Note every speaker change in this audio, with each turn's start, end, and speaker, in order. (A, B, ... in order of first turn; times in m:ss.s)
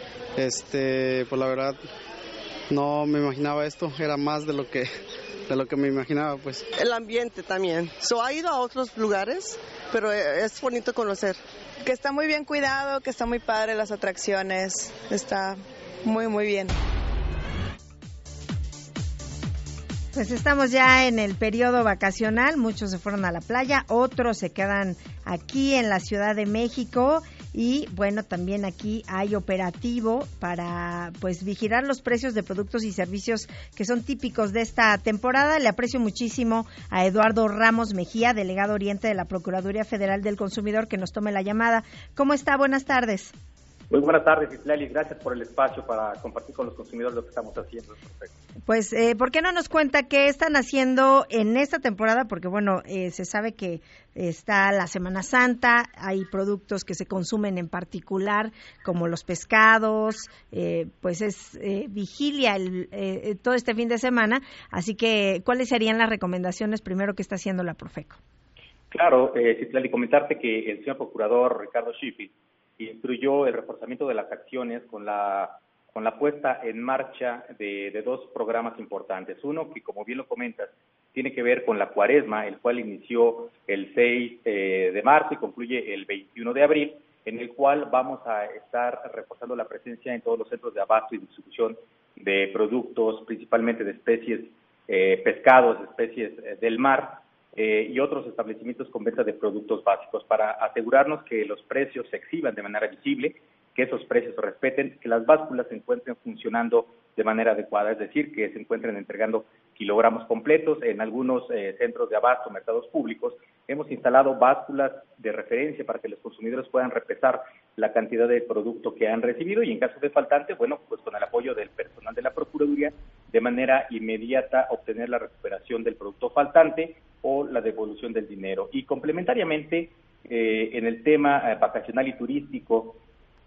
0:00.4-0:01.8 A
0:02.7-0:04.9 A
0:05.5-0:06.7 A
0:06.8-0:11.4 B
0:11.8-0:16.7 C
0:20.1-0:43.3 D
0:43.9-0:48.3 E
0:48.7-1:08.2 D
1:08.9-2:13.0 E